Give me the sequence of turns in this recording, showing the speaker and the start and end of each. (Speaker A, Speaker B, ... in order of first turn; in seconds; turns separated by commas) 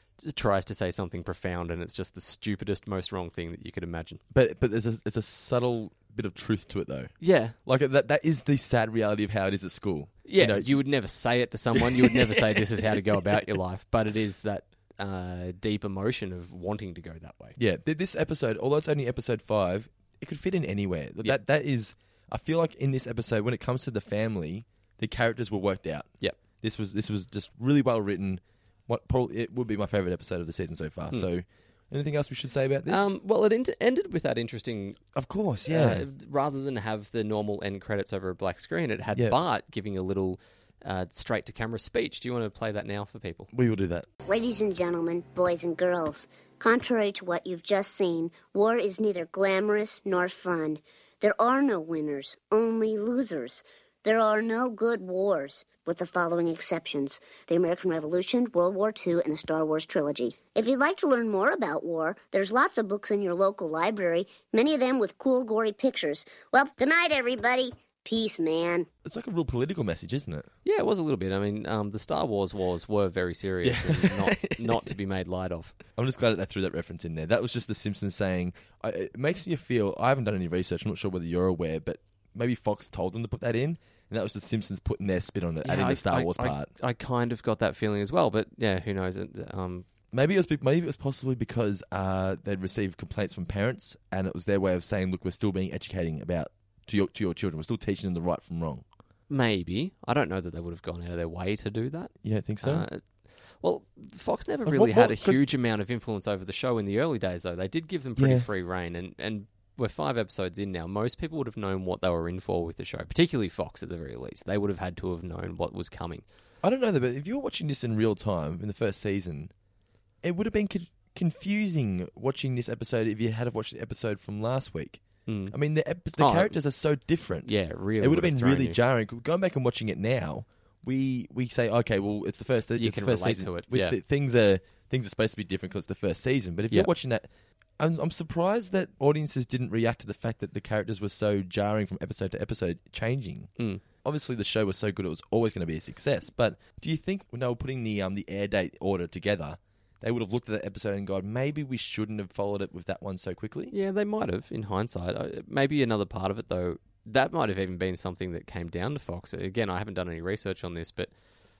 Speaker A: 0.2-4.2, Speaker B: 4.3-10.8, Speaker A: 7.2-7.6, Speaker A: 10.2-17.6, Speaker B: 11.7-13.2, Speaker B: 17.6-33.1, Speaker A: 32.9-35.0, Speaker B: 35.1-36.1, Speaker A: 35.7-43.5, Speaker B: 43.5-44.1, Speaker C: 44.3-68.9, Speaker B: 69.0-70.5, Speaker A: 70.6-75.8, Speaker B: 73.6-74.9, Speaker B: 75.9-86.7, Speaker A: 85.6-89.9, Speaker B: 90.1-98.8, Speaker A: 99.3-116.2, Speaker B: 102.2-102.9, Speaker B: 104.7-105.4, Speaker B: 108.2-108.5, Speaker B: 116.6-119.5, Speaker B: 120.2-153.7, Speaker A: 125.3-125.5, Speaker A: 126.2-126.5, Speaker A: 127.4-128.8, Speaker A: 132.8-134.0, Speaker A: 143.6-143.8, Speaker A: 153.7-161.1